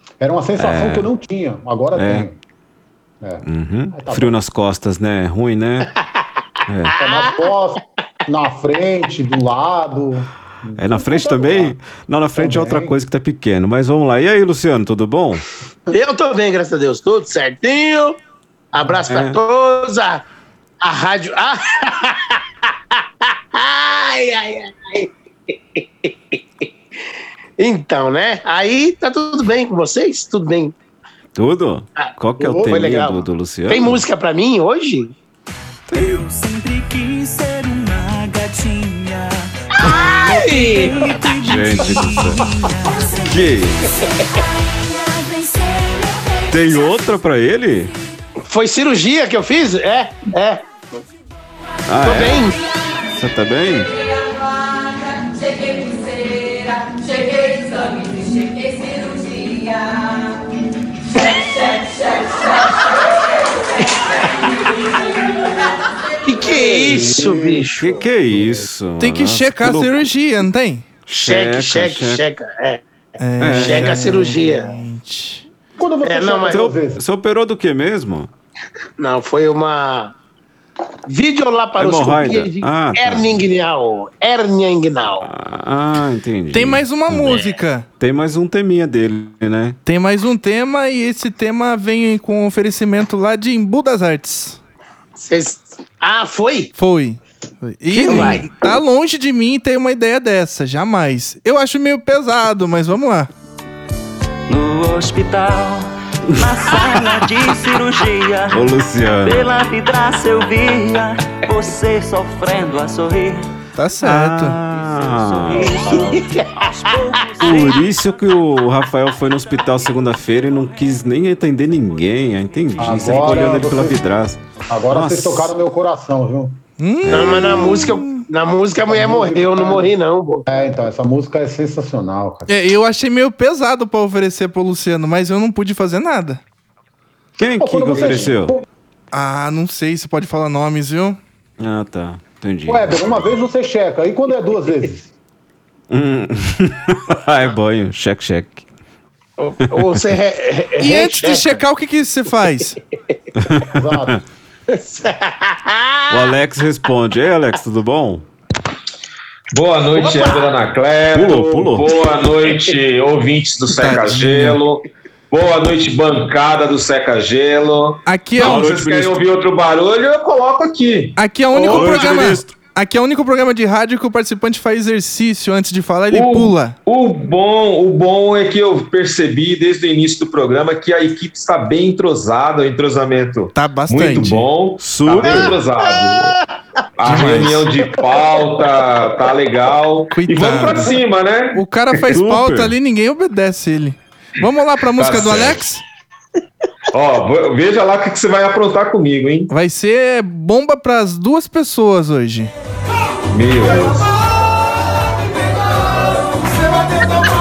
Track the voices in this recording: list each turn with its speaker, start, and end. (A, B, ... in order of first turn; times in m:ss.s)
0:00.2-0:02.4 A
0:00.6-0:01.1 B
0:01.9-0:02.3 B
0:03.2-0:04.3 A
0:03.4-0:05.9 B
0:06.7-0:06.9 B
0:06.9-0:07.3 C
0:06.9-0:11.7 A
0:10.8-0:15.4 B
0:12.4-0:12.9 A
0:15.9-0:18.2 C
0:18.7-0:20.2 C
0:19.1-0:19.4 B
0:20.8-0:26.7 C
0:27.6-0:30.7 C
0:31.4-0:34.0 B
0:32.0-0:35.1 C
0:35.9-0:36.2 B
0:35.9-0:43.3 D
0:39.8-0:41.0 C
0:41.4-0:42.4 B
0:42.9-0:47.1 E
0:43.2-0:43.9 B
0:46.4-0:47.9 B
0:48.4-0:50.6 C
0:51.9-0:52.5 B
0:52.0-0:52.5 C
0:53.1-0:53.9 B
0:55.4-0:59.8 E
1:06.2-1:08.0 C
1:06.4-1:08.7 A
1:07.8-1:10.0 B
1:09.0-1:10.8 F
1:11.1-1:12.2 B
1:11.2-1:12.8 C
1:13.2-1:15.4 F
1:13.4-1:14.3 B
1:13.6-1:14.8 C
1:15.8-1:17.0 A
1:16.0-1:16.6 C
1:16.5-1:18.3 B
1:19.0-1:20.1 C
1:21.1-1:25.3 C
1:21.8-1:23.5 B
1:25.2-1:27.4 B
1:26.5-1:27.9 F
1:28.0-1:29.8 B
1:29.8-1:34.6 F
1:35.2-1:36.7 C
1:36.8-1:43.3 F
1:37.9-1:38.6 C
1:38.1-1:38.3 B
1:44.5-1:48.6 D
1:46.4-1:47.0 B
1:48.5-1:49.5 B
1:49.2-1:53.5 D
1:53.8-1:54.6 F
1:54.0-1:56.1 B
1:54.6-1:57.8 D
1:55.6-1:56.5 C
1:57.4-2:05.5 B
2:02.8-2:04.0 A
2:04.7-2:06.6 A
2:06.8-2:08.2 F
2:07.0-2:07.9 B
2:07.1-2:10.4 C
2:08.9-2:09.9 A
2:10.4-2:12.5 A
2:12.5-2:16.4 F
2:17.4-2:18.6 B
2:17.6-2:18.6 A
2:19.1-2:21.2 F
2:21.6-2:23.2 B
2:22.7-2:25.1 A
2:25.9-2:28.6 B
2:29.4-2:31.6 C
2:30.8-2:32.8 F
2:33.4-2:34.2 B
2:33.6-2:34.2 A
2:34.7-2:36.2 C
2:36.1-2:38.2 B
2:39.5-2:51.1 G
2:39.9-2:40.5 C
2:41.1-2:41.9 B
2:43.7-2:44.6 F
2:48.0-2:48.7 F
2:48.4-2:49.2 B
2:51.2-2:56.8 F
2:51.5-2:51.9 C
2:51.6-2:52.5 B
2:56.1-3:06.3 G
3:03.5-3:04.5 F
3:04.8-3:05.6 B
3:07.0-3:11.6 G
3:07.0-3:07.7 F
3:10.1-3:11.0 F
3:11.5-3:15.8 F
3:12.1-3:12.8 B
3:14.9-3:15.6 G
3:16.9-3:19.5 G
3:19.5-3:22.5 F
3:23.3-3:24.0 G